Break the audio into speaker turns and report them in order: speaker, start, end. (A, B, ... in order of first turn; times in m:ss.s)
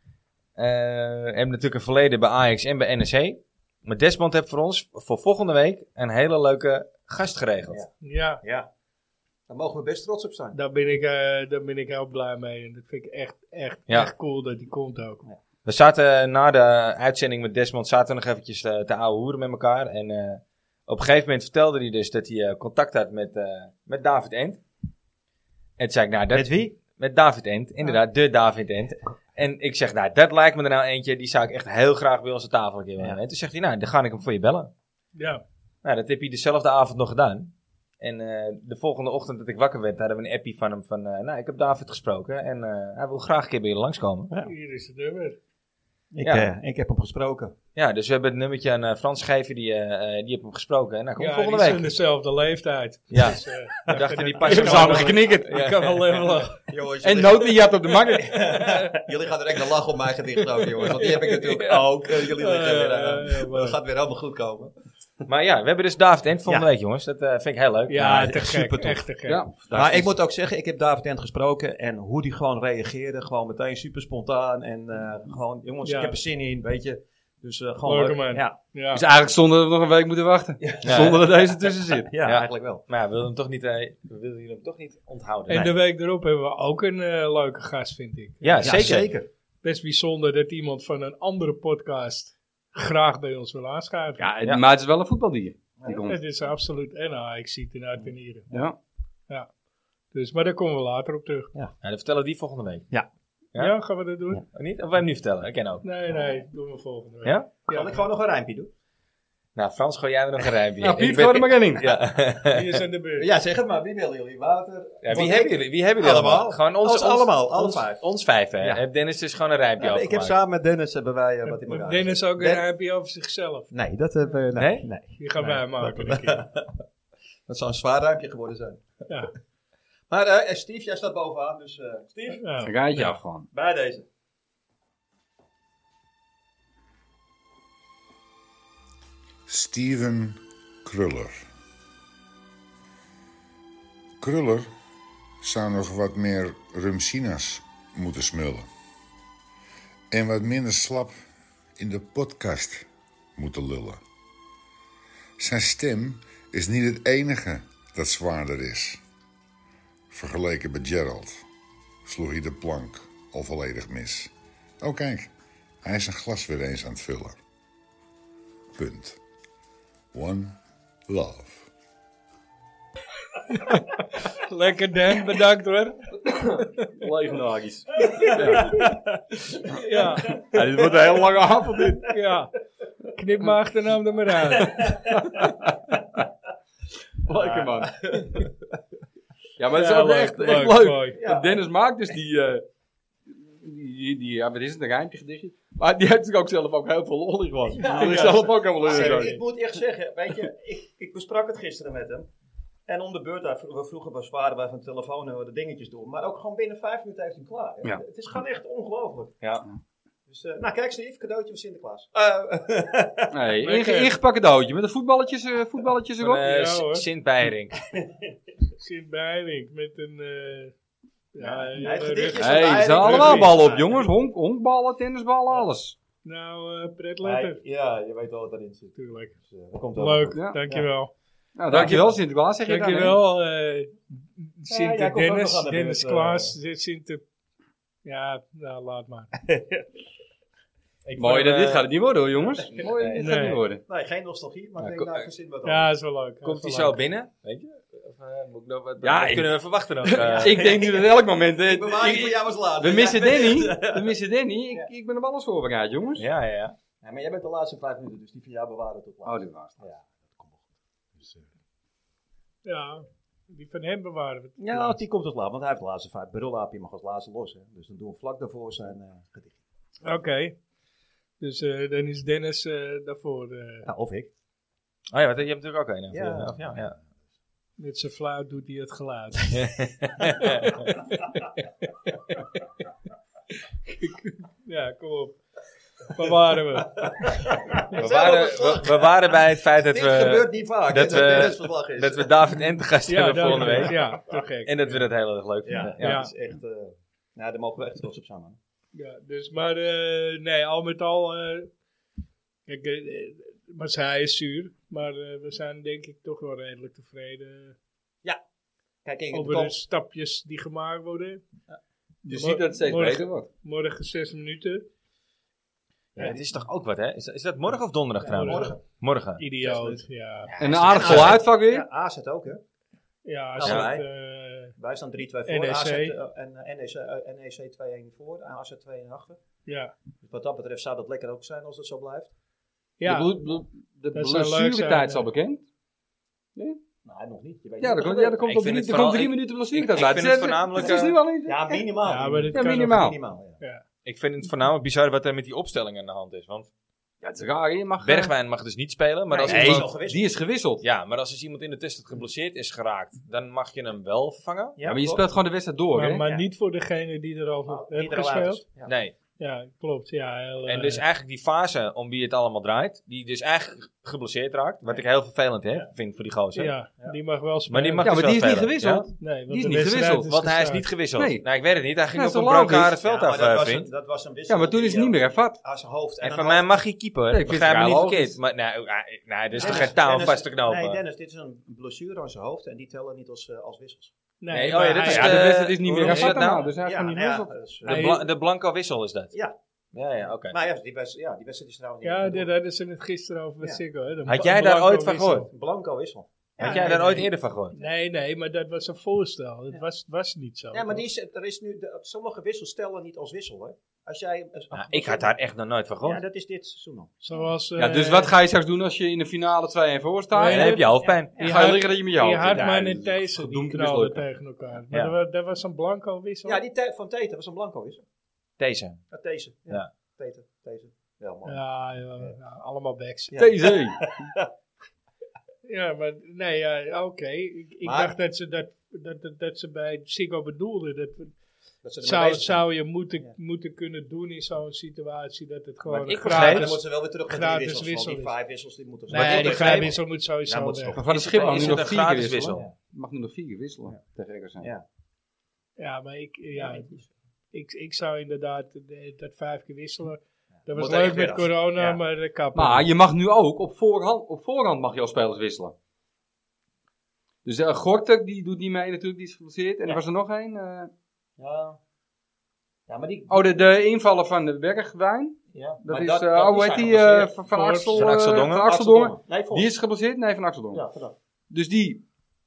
0:00.6-0:07.8 A
0:08.0-0:08.4 B
0:08.4-0:08.7 C
0:09.5-0:10.6 C
0:10.5-0:15.2 B
0:15.6-0:24.6 A
0:25.8-0:34.7 A
0:26.3-0:26.8 C
0:35.2-0:35.4 B
0:35.8-0:44.3 A
0:44.4-0:45.4 B
0:46.1-0:47.6 C
0:46.2-0:46.5 A
0:47.8-0:51.9 A
0:51.2-0:56.7 B
0:53.1-0:56.2 A
0:54.4-0:55.6 D
0:56.7-1:04.7 C
0:57.0-0:58.5 D
0:58.6-0:59.0 B
1:00.8-1:03.8 B
1:05.3-1:08.4 A
1:07.9-1:09.4 B
1:08.0-1:09.0 C
1:09.3-1:10.1 D
1:09.7-1:18.6 C
1:15.8-1:16.2 B
1:17.8-1:19.0 B
1:18.9-1:22.1 D
1:20.6-1:21.2 C
1:20.8-1:21.2 A
1:22.0-1:22.9 C
1:22.2-1:25.7 A
1:25.5-1:28.8 B
1:28.4-1:29.1 A
1:28.6-1:29.3 C
1:29.6-1:34.3 B
1:34.2-1:36.2 D
1:35.9-1:38.5 B
1:38.5-1:38.8 D
1:40.1-1:41.5 B
1:41.8-1:42.9 A
1:43.6-1:44.4 B
1:44.5-1:45.8 A
1:45.8-1:48.0 B
1:47.2-1:47.5 A
1:47.6-1:48.7 C
1:49.6-1:52.8 A
1:50.8-1:51.9 D
1:52.4-1:53.3 B
1:53.2-1:58.1 C
1:55.0-2:00.4 A
1:59.8-2:02.6 C
2:01.5-2:03.7 B
2:03.7-2:06.8 C
2:04.6-2:04.9 A
2:05.2-2:06.4 B
2:07.5-2:09.0 C
2:09.1-2:09.3 B
2:10.1-2:12.4 C
2:12.3-2:12.7 B
2:12.6-2:13.5 D
2:13.5-2:14.1 C
2:19.5-2:21.5 E
2:24.2-2:24.7 E
2:25.4-2:28.7 E
2:30.1-2:31.2 E
2:31.8-2:34.0 E
2:35.4-2:39.0 E
2:40.1-2:41.4 E
2:42.0-2:45.3 E
2:45.8-2:47.4 E
2:48.8-2:49.2 E
2:50.1-2:50.6 E
2:51.1-2:51.7 E
2:53.5-2:56.2 B
2:56.3-2:58.8 D
2:58.2-2:58.7 B
2:58.2-2:59.0 C
2:59.7-3:00.4 B
3:00.4-3:01.0 C
3:00.5-3:02.1 D
3:02.0-3:02.5 B
3:03.1-3:05.0 B
3:04.8-3:05.7 D
3:07.3-3:08.1 D
3:07.3-3:08.6 C
3:09.6-3:12.6 D
3:09.7-3:11.2 B
3:11.2-3:11.6 C
3:13.3-3:19.4 D
3:17.8-3:22.3 C
3:17.9-3:19.4 B
3:22.9-3:29.4 C
3:30.3-3:33.3 C
3:33.3-3:36.4 D
3:33.6-3:34.1 B
3:36.2-3:37.8 A
3:36.4-3:37.1 B
3:38.8-3:40.7 B
3:41.3-3:43.6 B
3:41.4-3:44.1 C
3:42.4-3:46.0 D
3:46.2-3:47.6 B
3:47.2-3:50.8 C
3:49.0-3:49.4 B
3:50.0-3:51.1 B
3:50.4-3:50.6 D
3:51.6-3:53.2 D
3:51.7-3:52.1 B
3:52.6-3:57.2 B
3:54.7-3:56.5 C
3:58.0-3:59.3 B
3:59.4-3:59.8 C
4:01.0-4:01.9 A
4:01.2-4:03.8 D
4:02.8-4:05.9 C
4:03.0-4:03.2 A
4:03.2-4:03.6 B
4:04.8-4:05.3 A
4:05.6-4:07.0 B
4:06.4-4:10.8 A
4:09.0-4:09.5 D
4:10.0-4:16.2 D
4:10.2-4:14.1 C
4:16.2-4:16.8 A
4:17.0-4:20.6 C
4:19.2-4:19.8 D
4:21.2-4:21.5 C
4:22.6-4:25.0 B
4:24.6-4:29.6 C
4:30.0-4:30.6 B
4:31.4-4:33.9 B
4:33.9-4:34.3 C
4:35.1-4:37.0 A
4:36.1-4:36.8 C
4:37.8-4:39.7 B
4:39.5-4:41.0 A
4:42.1-4:42.6 B
4:43.9-4:45.4 B
4:46.1-4:47.1 B
4:47.0-4:49.1 C
4:48.0-4:56.3 A
4:49.9-4:52.4 C
4:53.1-4:55.0 B
4:55.6-4:58.6 C
4:56.0-4:56.3 B
4:58.9-5:01.7 B
5:02.7-5:07.8 B
5:09.0-5:09.8 C
5:09.3-5:11.4 B
5:12.2-5:13.5 D
5:12.3-5:14.9 B
5:16.2-5:19.4 A
5:18.2-5:18.8 C
5:18.2-5:18.8 B
5:19.4-5:20.5 B
5:19.6-5:20.0 C
5:20.5-5:21.4 A
5:20.6-5:21.9 D
5:20.9-5:22.6 C
5:23.2-5:24.8 B
5:23.6-5:24.0 C
5:24.8-5:29.4 C
5:25.5-5:26.2 B
5:29.7-5:29.9 B
5:30.2-5:32.3 C
5:33.0-5:33.4 B
5:33.0-5:35.7 D
5:34.1-5:35.3 B
5:37.0-5:38.4 C
5:37.8-5:41.9 D
5:38.4-5:41.2 A
5:41.4-5:43.6 C
5:42.0-5:43.1 B
5:42.5-5:43.2 D
5:44.0-5:46.7 A
5:47.2-5:48.3 D
5:48.0-5:50.0 A
5:49.3-5:50.3 C
5:49.4-5:50.8 D
5:50.8-5:54.8 A
5:54.8-5:55.2 C
5:54.8-5:56.2 D
5:56.0-5:58.6 B
5:57.7-5:58.9 C
5:58.9-5:59.1 A
5:59.4-6:01.0 B
6:00.7-6:06.8 A
6:06.6-6:08.1 B
6:07.7-6:09.1 A
6:08.0-6:10.3 D
6:09.2-6:10.9 B
6:10.2-6:13.9 A
6:11.2-6:11.4 D
6:12.1-6:12.9 D
6:13.0-6:16.7 C
6:14.5-6:15.6 D
6:16.2-6:21.0 A
6:17.3-6:18.4 D
6:19.6-6:24.1 C
6:24.4-6:26.5 B
6:24.5-6:26.7 A
6:25.0-6:27.6 D
6:26.7-6:28.1 C
6:27.9-6:29.4 A
6:27.9-6:28.2 B
6:29.9-6:30.6 A
6:30.5-6:32.5 C
6:32.0-6:35.5 B
6:34.3-6:35.5 A
6:35.5-6:37.3 C
6:36.6-6:37.8 A
6:36.6-6:41.0 B
6:40.7-6:45.3 C
6:44.7-6:46.2 A
6:46.0-6:47.1 C
6:47.2-6:48.3 B
6:47.8-6:50.8 D
6:50.3-6:56.6 B
6:50.4-6:51.4 A
6:51.1-6:51.6 C
6:51.4-6:54.2 D
6:52.6-6:52.8 A
6:56.4-6:58.0 C
6:58.6-6:59.0 A
6:59.1-7:01.6 C
7:01.5-7:03.4 B
7:03.3-7:04.5 C
7:03.4-7:04.1 D
7:05.6-7:11.3 B
7:07.8-7:08.1 C
7:11.8-7:12.7 C
7:12.0-7:18.3 B
7:15.9-7:16.8 A
7:16.2-7:21.9 C
7:19.1-7:21.0 B
7:19.1-7:19.9 A
7:21.0-7:24.7 D
7:21.1-7:22.6 A
7:25.8-7:26.9 B
7:26.6-7:27.1 C
7:27.5-7:32.9 B
7:30.7-7:32.0 C
7:32.6-7:35.7 D
7:37.4-7:40.9 D
7:41.4-7:41.8 C
7:42.9-7:43.5 C
7:43.3-7:50.8 D
7:45.5-7:47.3 C
7:47.5-7:48.0 B
7:48.0-7:48.7 A
7:48.6-7:49.7 C
7:50.7-7:51.2 C
7:51.5-7:52.0 D